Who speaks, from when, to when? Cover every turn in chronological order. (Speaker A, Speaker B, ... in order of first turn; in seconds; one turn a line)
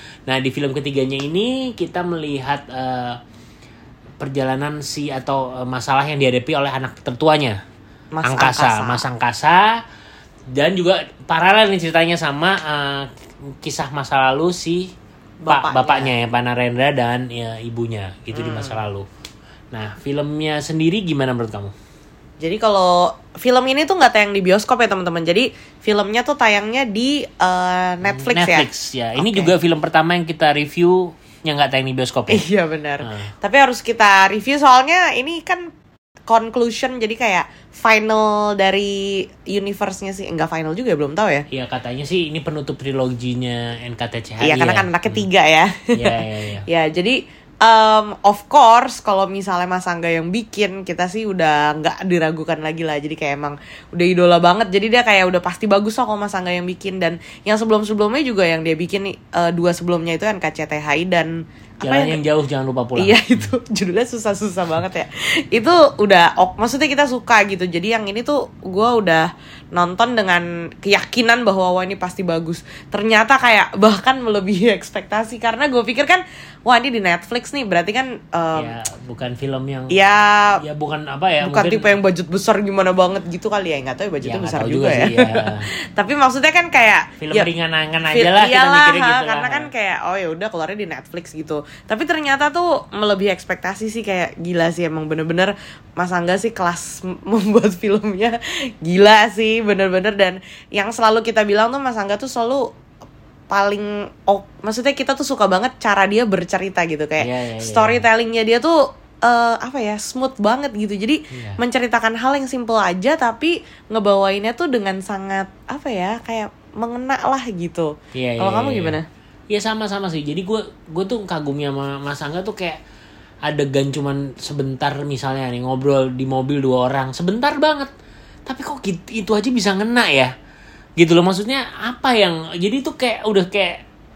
Speaker A: 0.3-3.2
Speaker A: 4.2-7.6
Speaker B: 8.1-9.1
Speaker A: 8.2-9.8
Speaker A: 10.5-13.1
Speaker A: 13.6-14.9
Speaker B: 15.4-16.1
Speaker A: 15.5-19.1
Speaker B: 18.3-18.8
Speaker A: 19.7-21.7
Speaker B: 22.4-29.5
Speaker A: 28.0-32.4
Speaker B: 32.3-35.7
Speaker A: 33.0-33.3
Speaker B: 36.3-41.5
Speaker A: 41.5-45.3
Speaker B: 44.4-46.1
Speaker A: 45.9-46.6
Speaker B: 46.7-62.2
Speaker A: 61.8-63.5
Speaker B: 63.0-78.7
Speaker A: 78.6-80.0
Speaker B: 79.9-80.6
Speaker A: 80.6-81.9
Speaker B: 81.4-87.5
Speaker A: 84.2-85.7
Speaker A: 87.2-89.7
Speaker B: 88.1-102.7
Speaker B: 103.5-119.0
Speaker A: 107.2-108.0
Speaker A: 111.3-111.6
Speaker A: 118.1-119.0
Speaker A: 119.5-122.8
Speaker A: 123.4-127.9
Speaker A: 128.5-130.3
Speaker A: 131.0-133.8